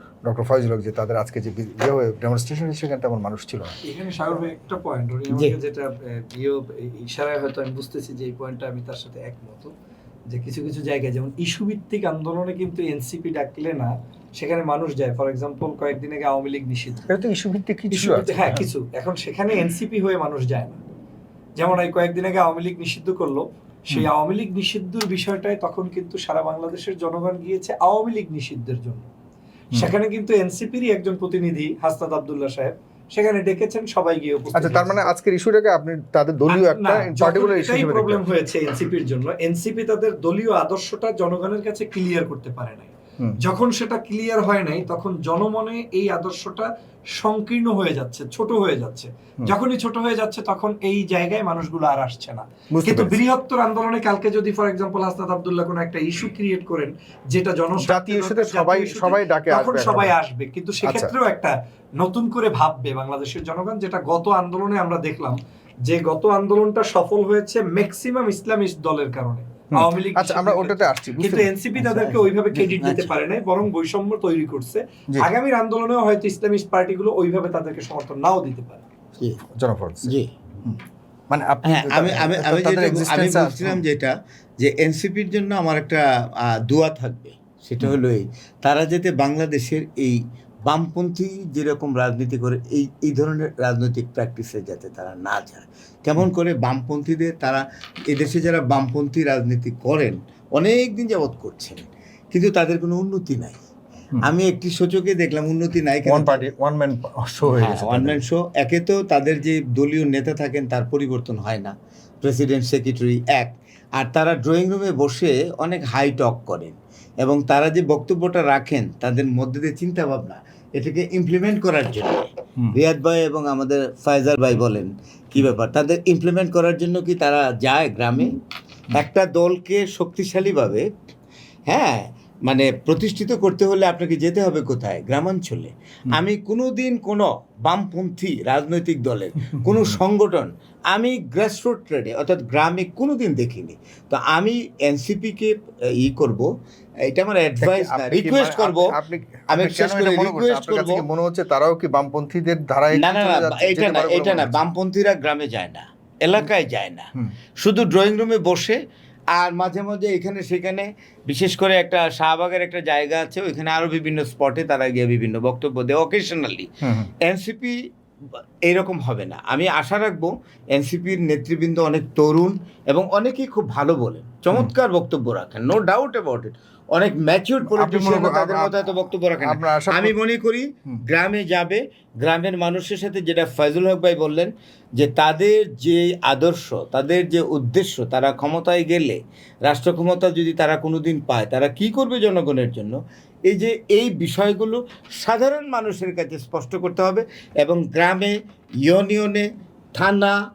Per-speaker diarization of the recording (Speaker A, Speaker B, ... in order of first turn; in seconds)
Speaker A: 0.2-3.8, 17.1-18.6, 34.5-38.3, 52.7-53.2, 57.8-60.1, 60.8-61.1, 69.7-72.7, 79.4-83.8, 106.0-108.2, 139.6-140.0, 147.6-154.6, 177.6-180.2
Speaker B: 3.8-9.7, 10.3-17.1, 17.9-20.8, 21.6-29.1, 29.7-35.0, 36.5-78.8
Speaker C: 72.7-73.1, 80.0-80.3, 81.6-103.6, 104.2-106.5, 107.5-128.3, 128.9-130.8, 131.7-146.5, 147.1-148.9, 149.5-151.0, 152.9-158.8, 159.3-167.8, 168.7-193.0, 193.5-200.3